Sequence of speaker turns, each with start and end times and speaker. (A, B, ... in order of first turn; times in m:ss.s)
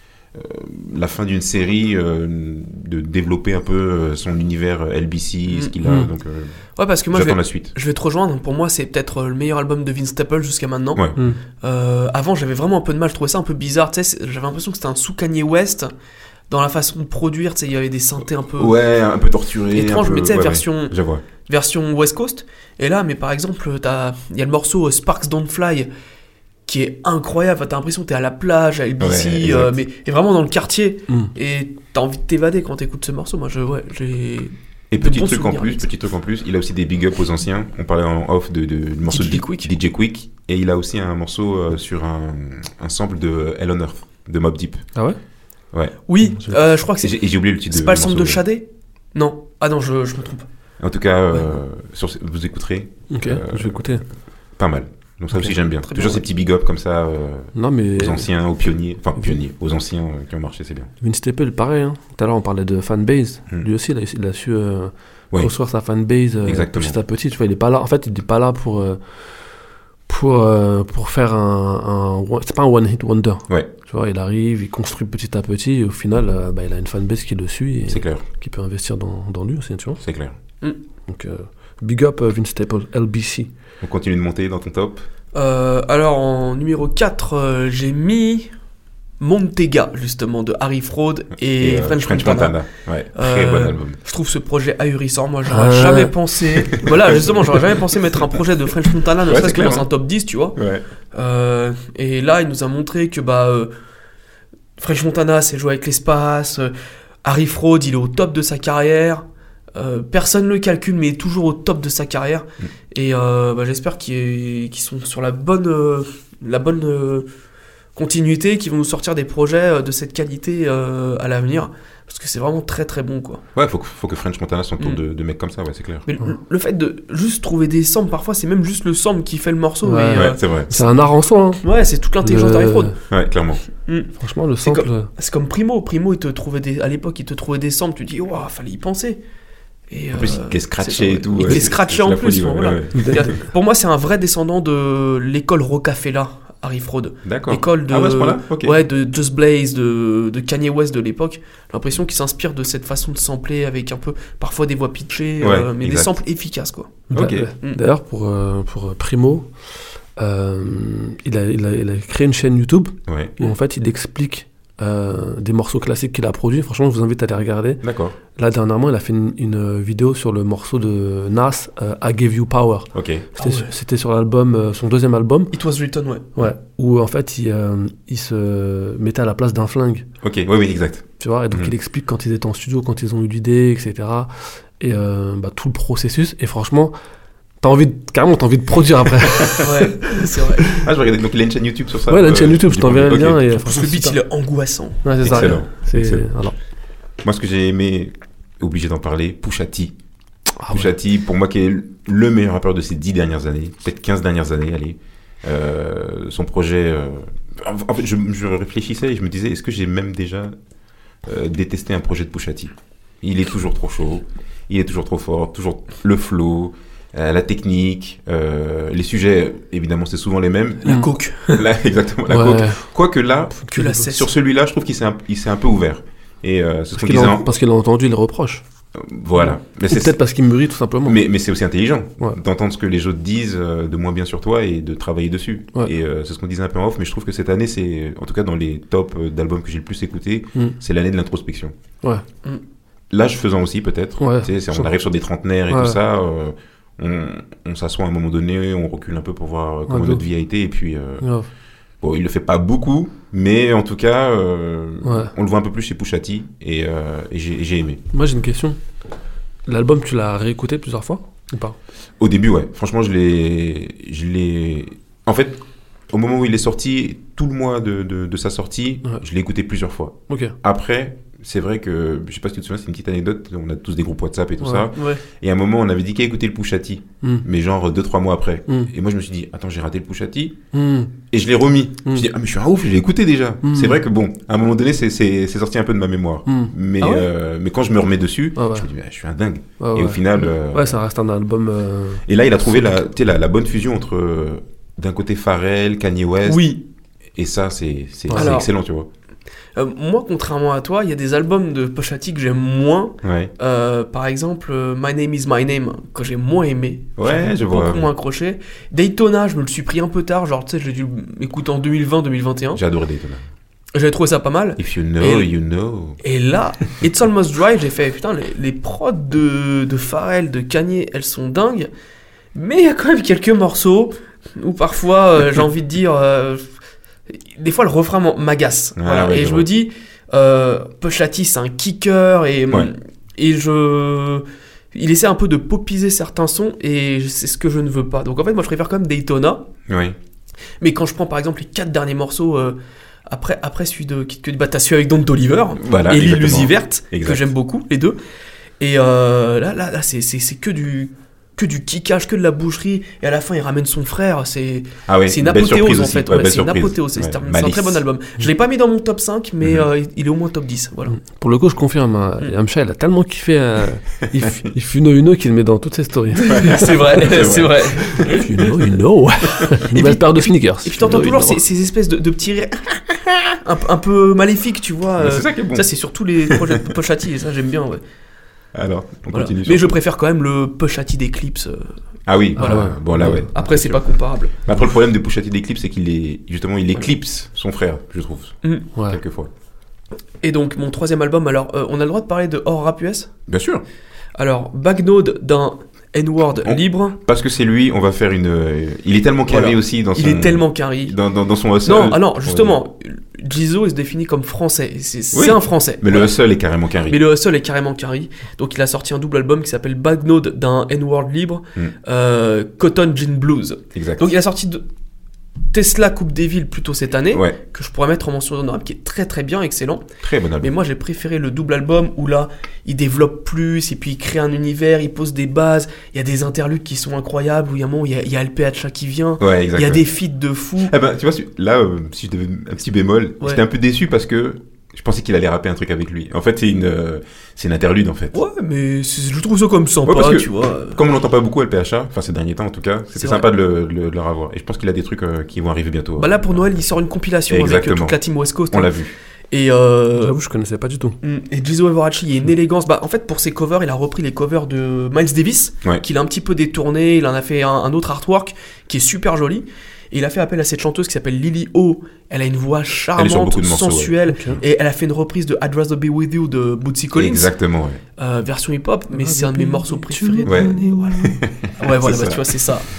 0:00.3-0:06.6 A
0:06.8-0:11.0 B
0:07.1-0:07.7 A
0:11.0-0:11.2 A
0:11.6-0:15.9 B
0:16.5-0:18.8 B
0:18.6-0:21.2 A
0:19.8-0:25.9 B
0:26.7-0:35.9 B
0:29.0-0:29.8 A
0:34.9-0:44.8 A
0:39.1-0:39.7 B
0:46.1-0:50.5 B
0:47.0-0:48.4 A
0:50.8-0:54.0 A
0:53.1-0:54.0 C
0:54.6-1:00.9 A
0:55.8-0:56.2 B
0:57.6-0:58.3 C
1:01.0-1:09.0 C
1:06.4-1:07.0 A
1:10.1-1:20.0 C
1:17.9-1:18.2 A
1:20.0-1:20.4 A
1:21.1-1:23.5 C
1:23.8-1:25.0 A
1:25.3-1:28.5 B
1:29.2-1:32.6 B
1:31.6-1:34.0 A
1:33.2-1:40.6 B
1:35.5-1:36.2 C
1:36.7-1:38.2 A
1:39.2-1:39.9 A
1:40.6-1:40.8 A
1:41.1-1:43.7 B
1:44.8-1:46.7 B
1:47.2-1:49.2 B
1:49.8-1:57.3 B
1:58.0-2:03.4 B
2:03.6-2:06.1 A
2:06.1-2:10.4 B
2:09.8-2:11.6 C
2:10.2-2:10.8 A
2:11.6-2:13.0 B
2:12.2-2:13.0 C
2:13.1-2:13.6 A
2:13.8-2:14.1 B
2:14.2-2:15.1 C
2:14.6-2:19.2 B
2:19.9-2:37.0 B
2:20.1-2:23.4 A
2:23.0-2:23.3 C
2:27.2-2:28.8 A
2:35.4-2:36.2 A
2:37.1-2:39.5 C
2:37.1-2:37.5 A
2:40.2-2:47.8 C
2:43.1-2:43.4 A
2:47.8-2:48.2 A
2:48.4-2:55.5 C
2:52.9-2:53.3 A
2:53.4-2:53.7 B
2:55.5-2:56.4 B
2:56.4-3:00.1 C
3:00.2-3:01.7 A
3:01.2-3:06.9 C
3:07.6-3:10.8 C
3:09.6-3:10.8 B
3:10.7-3:13.4 A
3:12.1-3:14.2 C
3:13.6-3:15.6 B
3:15.0-3:16.6 C
3:15.2-3:16.3 A
3:17.2-3:19.9 A
3:20.6-3:20.9 C
3:20.7-3:30.6 A
3:31.2-3:47.5 A
3:40.8-3:41.7 B
3:42.3-3:42.8 C
3:43.7-3:44.3 B
3:43.7-3:44.0 C
3:47.0-3:48.6 C
3:49.0-3:50.2 A
3:49.9-3:51.2 C
3:51.0-4:01.8 A
4:03.1-4:11.3 A
4:04.2-4:04.9 C
4:05.7-4:06.0 C
4:09.9-4:10.2 C
4:11.2-4:11.5 C
4:12.0-4:18.0 A
4:15.0-4:15.3 C
4:18.1-4:18.8 C
4:19.7-4:21.8 C
4:22.2-4:40.6 A
4:30.3-4:30.6 C
4:34.6-4:34.9 C
4:35.0-4:35.2 B
4:40.7-4:41.1 C
4:41.3-4:51.0 A
4:43.6-4:44.0 C
4:46.5-4:46.7 C
4:47.0-4:47.3 B
4:48.6-4:48.9 C
4:49.8-4:53.0 C
4:52.3-4:56.7 A
4:56.5-4:56.8 B
4:57.4-4:59.1 A
4:58.3-4:58.6 C
4:58.3-4:58.7 B
4:59.8-5:12.8 B
5:03.2-5:03.5 A
5:07.2-5:08.1 A
5:12.7-5:13.4 A
5:13.9-5:15.5 B
5:14.8-5:16.2 A
5:16.2-5:21.9 B
5:22.6-5:26.7 B
5:27.3-5:39.6 B
5:29.0-5:29.7 A
5:39.9-5:40.2 A
5:40.8-5:48.2 B
5:45.8-5:47.5 A
5:48.8-6:01.2 B
5:55.1-5:58.0 A
5:59.6-5:59.9 A
6:01.2-6:07.2 C
6:06.4-6:08.5 B
6:06.4-6:08.7 A
6:08.2-6:11.6 C
6:09.9-6:18.0 B
6:15.2-6:15.9 A
6:16.4-6:16.9 A
6:18.8-6:20.0 A
6:19.3-6:22.0 B
6:22.3-6:29.5 A
6:22.6-6:23.5 C
6:22.6-6:24.5 B
6:29.0-6:29.2 C
6:30.4-6:33.3 B
6:33.5-6:33.8 A
6:34.4-6:37.2 B
6:36.6-6:42.8 A
6:39.5-6:41.2 B
6:41.8-6:46.3 B
6:45.3-6:47.2 A
6:47.1-6:54.8 B
6:53.9-6:54.3 A
6:55.7-7:00.1 B
6:57.3-6:57.6 A
7:00.2-7:00.7 A
7:00.6-7:10.9 B
7:09.4-7:10.0 A
7:10.8-7:18.4 A
7:18.3-7:21.0 B
7:20.1-7:26.6 A
7:23.2-7:23.4 B
7:26.2-7:28.9 B
7:27.5-7:28.2 A
7:28.7-7:29.1 A
7:29.5-7:30.4 B
7:30.2-7:31.2 C
7:31.2-7:47.5 B
7:43.2-7:44.2 A
7:44.3-7:44.6 C
7:47.2-7:48.0 A
7:48.2-7:52.9 B
7:49.1-7:51.4 C
7:50.4-7:52.7 A